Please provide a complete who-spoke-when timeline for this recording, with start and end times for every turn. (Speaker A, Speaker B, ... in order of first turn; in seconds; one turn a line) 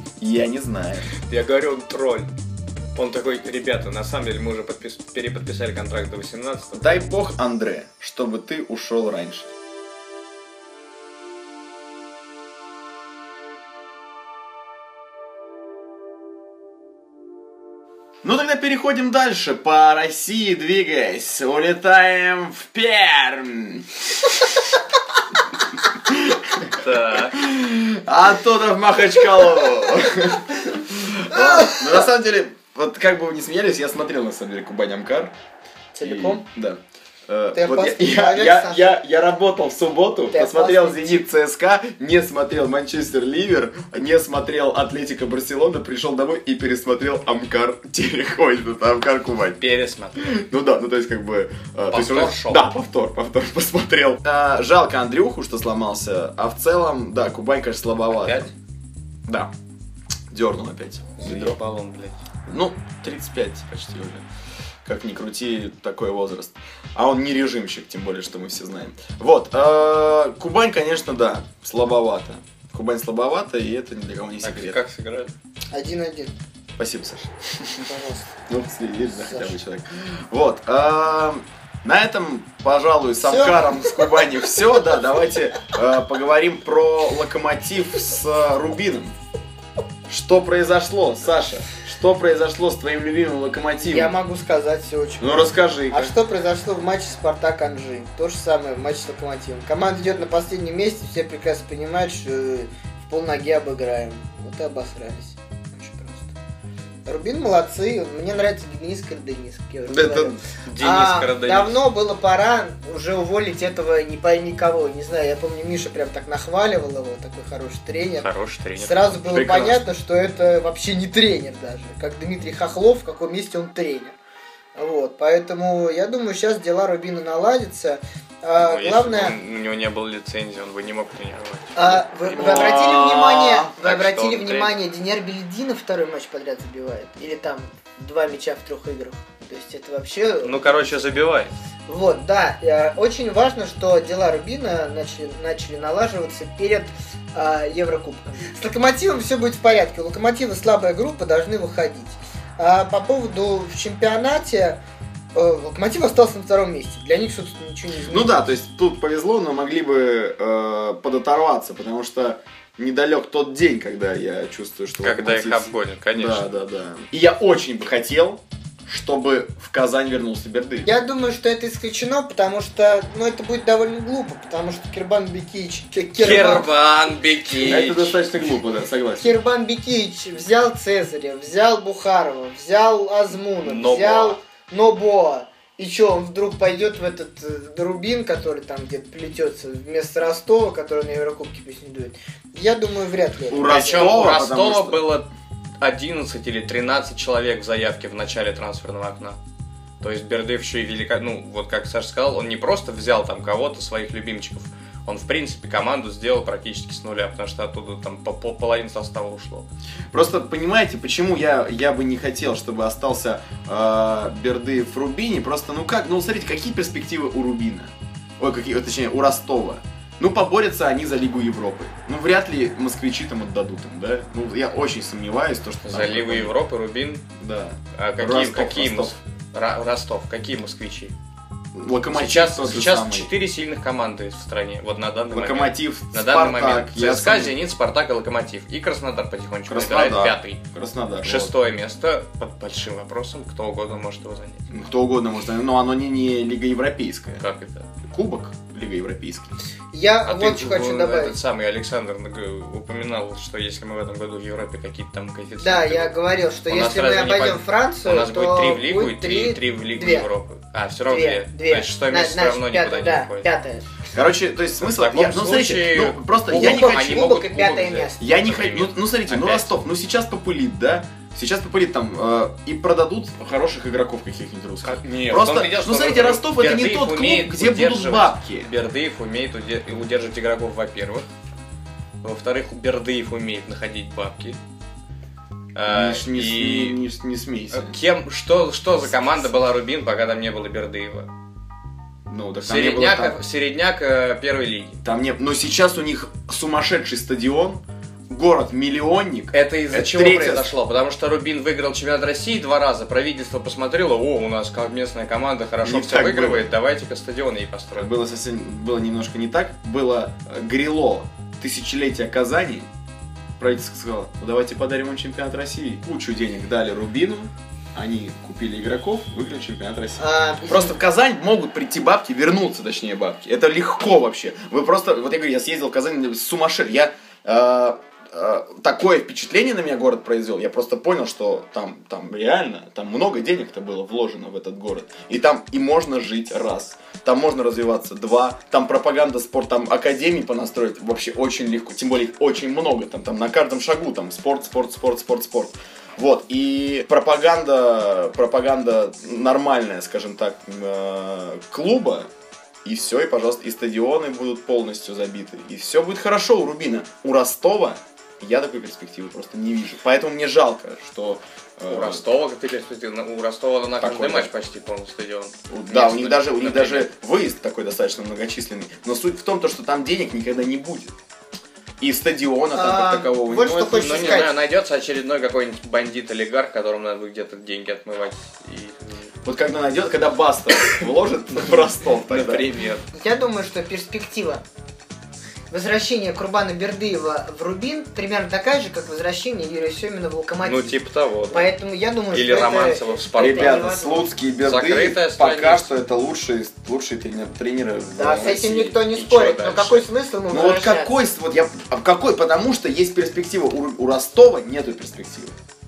Speaker A: 0.2-1.1
Speaker B: 1.2-2.3
Speaker B: 3.0-7.0
Speaker A: 6.7-9.5
Speaker A: 18.2-24.6
Speaker A: 25.9-35.3
Speaker B: 26.7-27.4
Speaker C: 31.3-31.8
Speaker C: 36.0-36.4
Speaker A: 36.0-49.6
Speaker C: 37.5-38.9
Speaker C: 40.3-41.2
Speaker B: 49.6-50.4
Speaker A: 50.2-58.5
Speaker B: 51.9-52.6
Speaker B: 58.2-58.5
Speaker A: 59.3-59.5
Speaker A: 60.3-61.6
Speaker B: 61.2-62.2
Speaker A: 62.5-64.2
Speaker A: 64.8-74.8
Speaker B: 74.4-75.3
Speaker C: 75.7-76.3
Speaker A: 76.8-77.9
Speaker C: 77.8-78.3
Speaker A: 78.5-89.2
Speaker C: 79.1-79.5
Speaker C: 83.2-84.2
Speaker A: 90.1-94.1
Speaker C: 93.8-106.3
Speaker A: 95.2-96.1
Speaker C: 107.1-124.2
Speaker A: 109.9-110.4
Speaker B: 110.7-111.8
Speaker B: 118.2-119.7
Speaker A: 119.3-119.7
Speaker C: 124.8-129.4
Speaker B: 128.6-132.8
Speaker C: 131.8-141.0
Speaker A: 132.3-133.7
Speaker B: 133.8-134.8
Speaker B: 140.4-141.5
Speaker C: 141.9-154.8
Speaker C: 155.3-158.3
Speaker A: 158.1-170.9
Speaker B: 165.0-166.5
Speaker C: 170.8-176.7
Speaker B: 176.2-178.2
Speaker A: 176.3-176.6
Speaker A: 177.6-179.3
Speaker C: 179.2-194.1
Speaker B: 183.6-184.4
Speaker A: 193.5-195.0
Speaker B: 193.6-195.3
Speaker B: 195.8-199.4
Speaker B: 200.0-209.7
Speaker A: 210.1-226.6
Speaker B: 225.8-227.3
Speaker A: 227.4-229.2
Speaker B: 227.9-231.1
Speaker A: 231.8-233.3
Speaker B: 232.1-240.6
Speaker A: 235.3-237.6
Speaker A: 239.7-241.5
Speaker B: 241.2-244.7
Speaker A: 244.7-247.4
Speaker B: 247.4-247.9
Speaker A: 248.0-249.6
Speaker C: 249.9-251.4
Speaker B: 250.2-256.1
Speaker C: 255.6-260.3
Speaker B: 256.7-263.5
Speaker C: 261.1-263.9
Speaker A: 264.1-267.4
Speaker B: 264.8-269.7
Speaker C: 266.5-268.2
Speaker A: 268.2-278.7
Speaker B: 274.8-281.3
Speaker B: 282.2-284.6
Speaker B: 285.8-287.0
Speaker A: 285.9-288.0
Speaker B: 287.7-291.3
Speaker A: 292.3-293.4
Speaker B: 292.6-295.0
Speaker A: 295.0-300.7
Speaker B: 299.5-308.1
Speaker A: 305.8-306.7
Speaker A: 307.9-312.9
Speaker A: 313.6-352.3
Speaker C: 320.2-321.0
Speaker A: 352.9-362.2
Speaker B: 361.9-367.1
Speaker A: 364.0-364.5
Speaker A: 365.7-371.1
Speaker A: 372.0-374.5
Speaker C: 372.7-374.5
Speaker B: 373.9-379.3
Speaker A: 379.4-382.7
Speaker B: 382.3-383.1
Speaker C: 383.1-384.6
Speaker C: 385.7-391.0
Speaker B: 390.6-391.7
Speaker C: 391.5-394.4
Speaker B: 392.3-393.8
Speaker A: 393.4-399.0
Speaker B: 394.6-395.9
Speaker C: 398.2-401.1
Speaker B: 399.1-400.1
Speaker A: 400.5-405.6